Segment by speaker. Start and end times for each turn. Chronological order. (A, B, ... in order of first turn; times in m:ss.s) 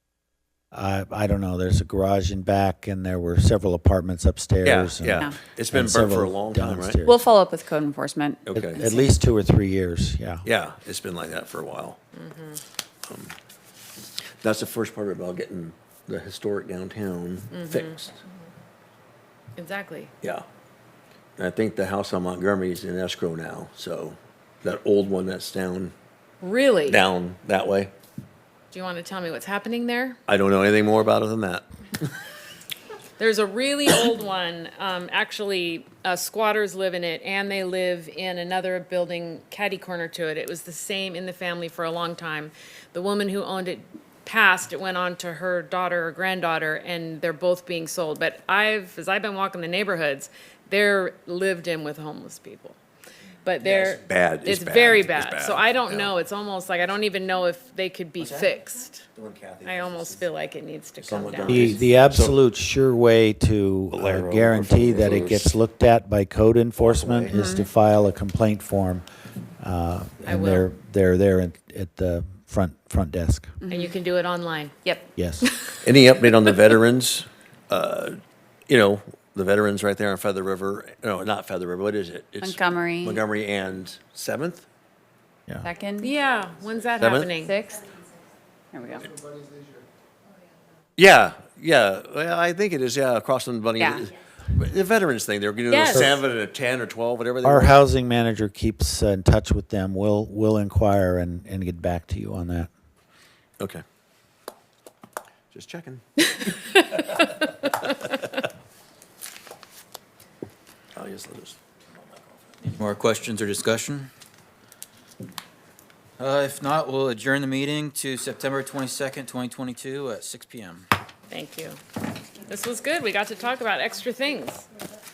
0:00.7-0:07.2 A
0:04.6-0:07.0 B
0:07.0-0:09.1 C
0:08.4-0:08.8 B
0:08.6-0:10.5 A
0:10.4-0:12.0 B
0:12.1-0:12.6 D
0:13.1-0:13.3 B
0:14.4-0:18.1 B
0:17.5-0:18.4 D
0:19.6-0:20.1 D
0:21.4-0:25.9 B
0:26.4-0:27.0 D
0:26.9-0:27.9 B
0:28.7-0:30.2 D
0:30.3-0:32.1 B
0:33.2-0:52.8 D
0:53.4-0:59.0 D
0:53.6-0:56.1 B
0:58.2-0:58.6 B
0:59.1-1:00.3 B
0:59.6-1:01.9 D
1:01.0-1:02.4 B
1:01.5-1:09.0 A
1:03.9-1:05.6 B
1:06.8-1:07.6 B
1:07.3-1:07.7 C
1:09.6-1:13.6 A
1:10.2-1:10.7 D
1:13.6-1:13.9 C
1:13.7-1:14.8 D
1:14.8-1:15.1 C
1:15.2-1:15.5 A
1:15.8-1:24.7 B
1:22.4-1:23.2 C
1:25.6-1:26.1 C
1:26.0-1:27.6 D
1:27.0-1:27.3 B
1:27.4-1:27.8 C
1:28.7-1:29.1 C
1:31.0-1:37.8 B
1:33.8-1:34.0 C
1:35.7-1:36.1 D
1:35.9-1:36.2 A
1:37.4-1:42.7 A
1:43.6-1:43.8 B
1:45.5-1:46.2 B
1:50.9-1:52.3 B
1:52.7-1:54.1 E
1:56.2-2:00.9 E
2:01.3-2:01.8 D
2:02.4-2:04.7 D